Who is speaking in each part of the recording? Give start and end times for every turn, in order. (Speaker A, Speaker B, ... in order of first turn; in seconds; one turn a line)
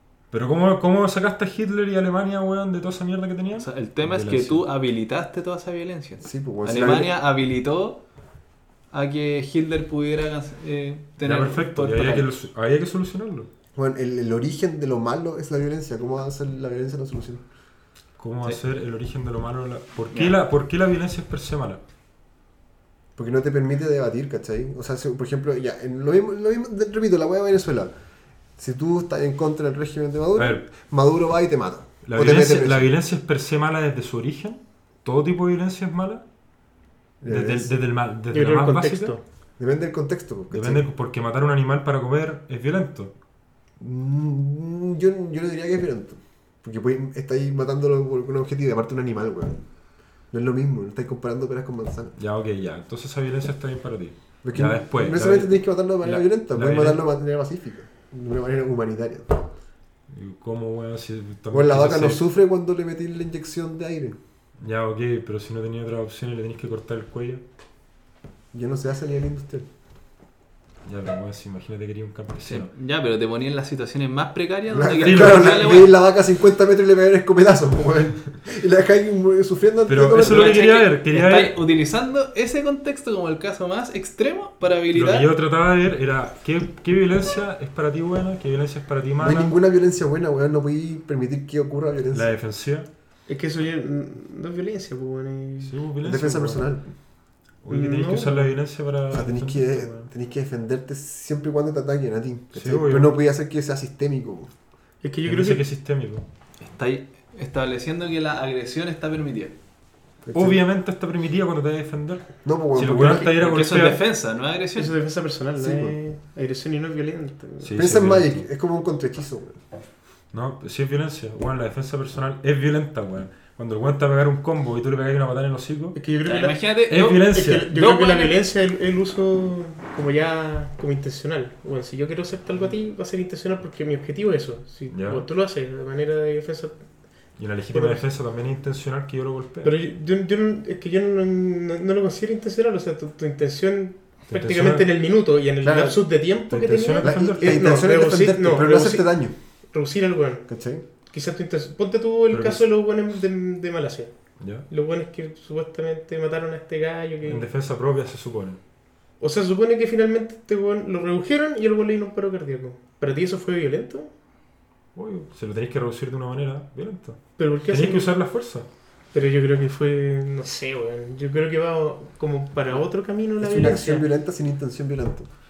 Speaker A: 0.3-4.6
Speaker B: 3.6-8.0
Speaker C: 6.2-7.1
Speaker B: 8.9-12.3
Speaker A: 11.2-13.5
Speaker C: 13.7-17.4
Speaker A: 18.2-21.8
Speaker B: 20.1-20.4
Speaker C: 23.1-27.9
Speaker C: 28.6-32.9
Speaker A: 30.4-30.7
Speaker A: 32.0-36.2
Speaker C: 37.2-37.7
Speaker A: 37.3-39.1
Speaker D: 38.3-39.2
Speaker C: 39.6-40.8
Speaker A: 40.5-43.1
Speaker C: 43.8-49.6
Speaker C: 50.3-52.1
Speaker A: 52.2-57.0
Speaker C: 54.4-59.5
Speaker A: 60.1-62.2
Speaker C: 61.5-64.2
Speaker A: 64.6-67.4
Speaker C: 68.5-69.7
Speaker A: 70.8-72.7
Speaker B: 72.5-75.9
Speaker C: 74.7-80.6
Speaker A: 75.0-75.6
Speaker A: 79.9-81.6
Speaker B: 80.2-85.3
Speaker A: 84.9-89.5
Speaker C: 89.2-92.3
Speaker A: 92.1-92.9
Speaker D: 93.3-95.7
Speaker A: 95.6-96.7
Speaker C: 96.0-96.9
Speaker A: 97.6-100.1
Speaker D: 97.7-98.5
Speaker C: 99.1-104.5
Speaker A: 102.5-103.2
Speaker D: 105.0-105.6
Speaker A: 105.2-106.2
Speaker B: 106.6-109.5
Speaker C: 110.2-110.6
Speaker A: 110.3-114.0
Speaker C: 112.4-113.3
Speaker B: 113.3-114.9
Speaker D: 114.8-117.8
Speaker C: 115.6-116.0
Speaker A: 117.6-118.4
Speaker C: 117.8-119.6
Speaker A: 120.3-126.0
Speaker D: 125.9-126.6
Speaker B: 126.2-128.4
Speaker A: 126.9-127.7
Speaker D: 127.2-136.8
Speaker A: 134.9-135.2
Speaker A: 137.4-139.7
Speaker D: 137.7-138.0
Speaker D: 139.6-149.2
Speaker A: 144.3-144.9
Speaker C: 145.6-146.0
Speaker A: 146.5-147.8
Speaker C: 147.0-149.3
Speaker D: 149.7-150.4
Speaker C: 150.5-150.8
Speaker D: 151.1-154.1
Speaker A: 152.3-152.6
Speaker A: 154.4-154.7
Speaker D: 154.7-157.5
Speaker A: 157.2-158.6
Speaker D: 159.2-164.1
Speaker A: 164.9-168.7
Speaker D: 167.4-168.1
Speaker D: 169.1-174.1
Speaker C: 173.4-175.3